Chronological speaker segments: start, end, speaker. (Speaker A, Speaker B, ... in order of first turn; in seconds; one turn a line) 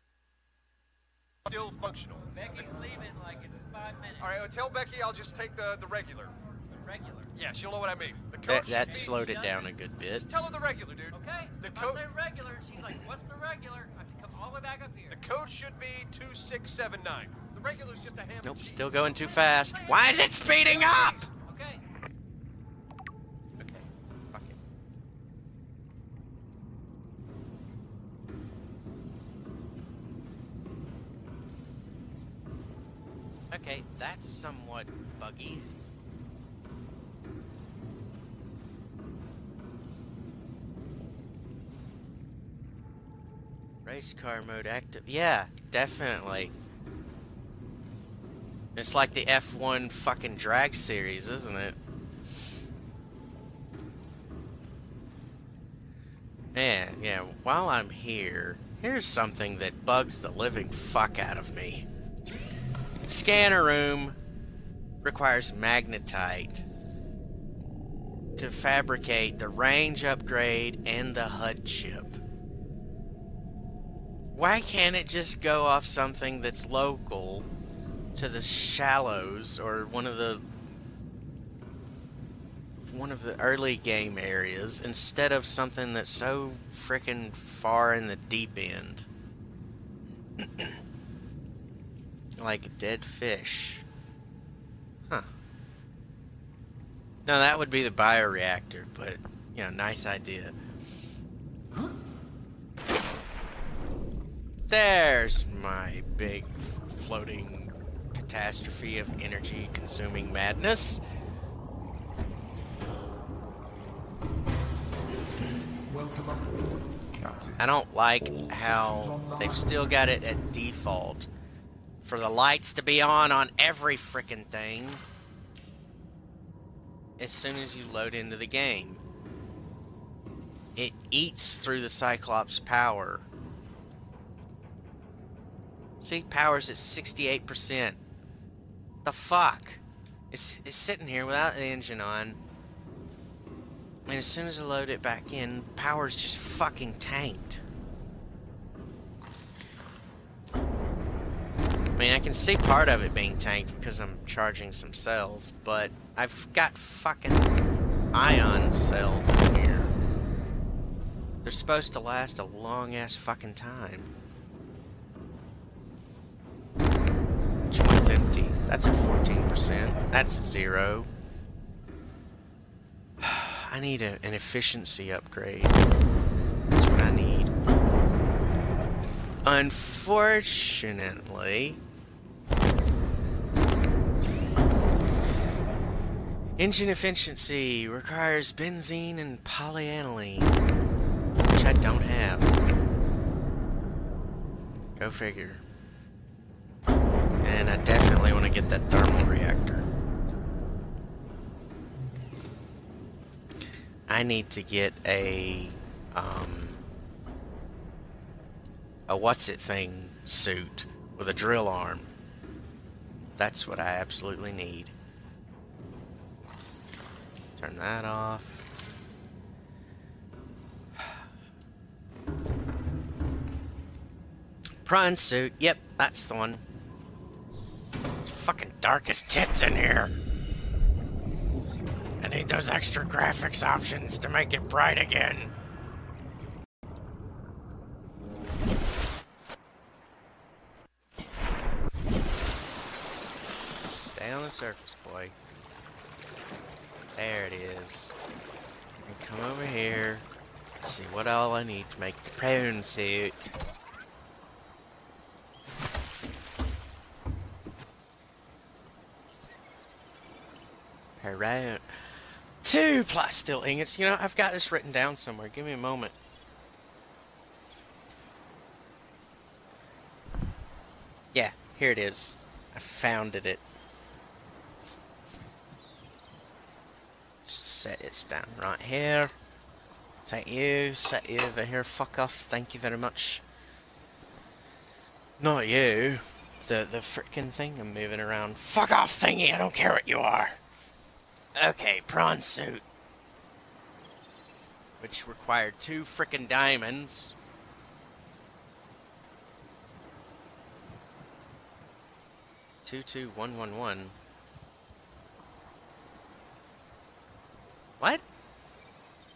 Speaker A: 1.4-2.5
Speaker B: 2.3-4.3
Speaker A: 4.2-6.3
Speaker B: 6.7-7.3
Speaker A: 7.3-9.3
Speaker C: 8.4-10.3
Speaker A: 10.2-12.0
Speaker B: 11.1-15.2
Speaker A: 15.1-18.9
Speaker C: 18.4-21.3
Speaker B: 21.3-21.8
Speaker C: 23.6-24.6
Speaker C: 33.5-35.6
Speaker C: 43.8-46.5
Speaker C: 48.8-51.8
Speaker C: 56.5-61.9
Speaker C: 63.1-64.2
Speaker C: 65.0-66.7
Speaker C: 68.4-72.2
Speaker C: 74.3-77.5
Speaker C: 78.2-80.4
Speaker C: 82.8-89.1
Speaker C: 90.4-90.8
Speaker C: 92.4-93.9
Speaker C: 97.2-100.5
Speaker C: 104.7-111.0
Speaker D: 115.9-117.6
Speaker C: 117.6-121.3
Speaker D: 118.2-119.7
Speaker C: 122.0-125.0
Speaker C: 127.2-129.0
Speaker C: 130.8-133.3
Speaker C: 136.0-138.0
Speaker C: 139.0-142.4
Speaker C: 144.1-147.6
Speaker C: 151.9-157.5
Speaker C: 158.1-159.9
Speaker C: 161.4-164.1
Speaker C: 167.7-171.1
Speaker C: 173.2-175.8
Speaker C: 176.7-177.5
Speaker C: 179.4-181.8
Speaker C: 186.6-190.6
Speaker C: 191.5-192.5
Speaker C: 195.0-195.6
Speaker C: 197.4-199.9
Speaker C: 204.1-206.8
Speaker C: 209.1-212.1
Speaker C: 213.4-214.9
Speaker C: 217.6-218.7
Speaker C: 221.0-221.2
Speaker C: 224.8-226.6
Speaker C: 228.2-230.2
Speaker C: 232.2-235.5
Speaker C: 243.9-245.3
Speaker C: 247.1-248.2
Speaker C: 249.0-250.3
Speaker C: 250.8-253.4
Speaker C: 261.2-266.1
Speaker C: 271.3-273.6
Speaker C: 277.4-279.3
Speaker C: 280.2-283.4
Speaker C: 285.4-290.6
Speaker C: 291.5-292.8
Speaker C: 295.0-297.4
Speaker C: 302.8-304.1
Speaker C: 308.0-308.2